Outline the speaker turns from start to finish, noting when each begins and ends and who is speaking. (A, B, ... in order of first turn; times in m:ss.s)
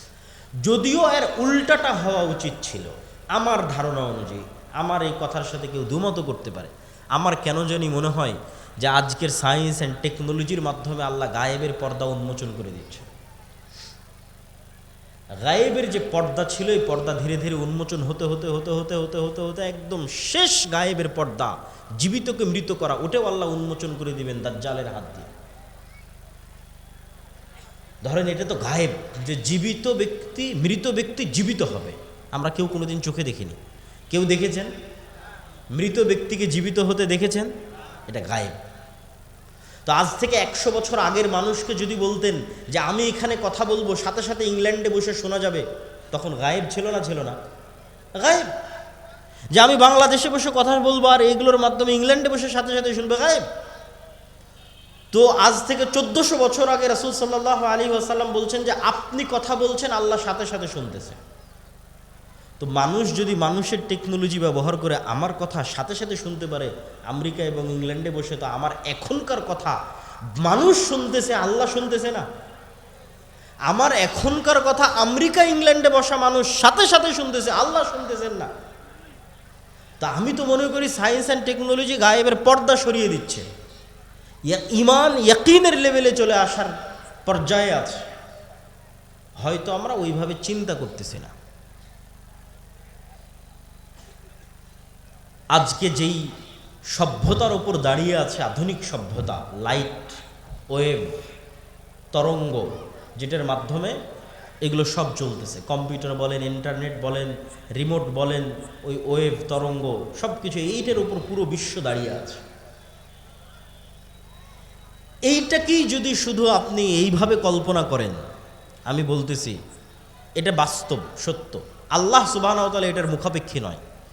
0:00.6-0:13.1 A
0:15.4-0:25.3 A
0:28.0-0:33.6 A
0:34.1-0:34.7 A
0:35.7-0:37.5 A
0:38.1-0:38.6 A
0:39.8-0:47.4 A
0:48.2-0:48.5 A
0:49.5-0:53.4 A
0:55.1-1:01.2 A
1:02.6-1:09.8 A
1:10.4-1:12.3 A
1:13.7-1:18.5 A
1:20.0-1:23.4 A
1:24.5-1:26.7 A
1:27.3-1:28.1 A
1:29.4-1:31.3 A
1:35.5-1:36.3 A
1:36.9-1:41.2 A
1:42.1-1:44.0 A
1:44.6-1:52.4 A
1:55.3-1:58.2 A
1:58.9-1:59.6 A
2:00.4-2:03.8 A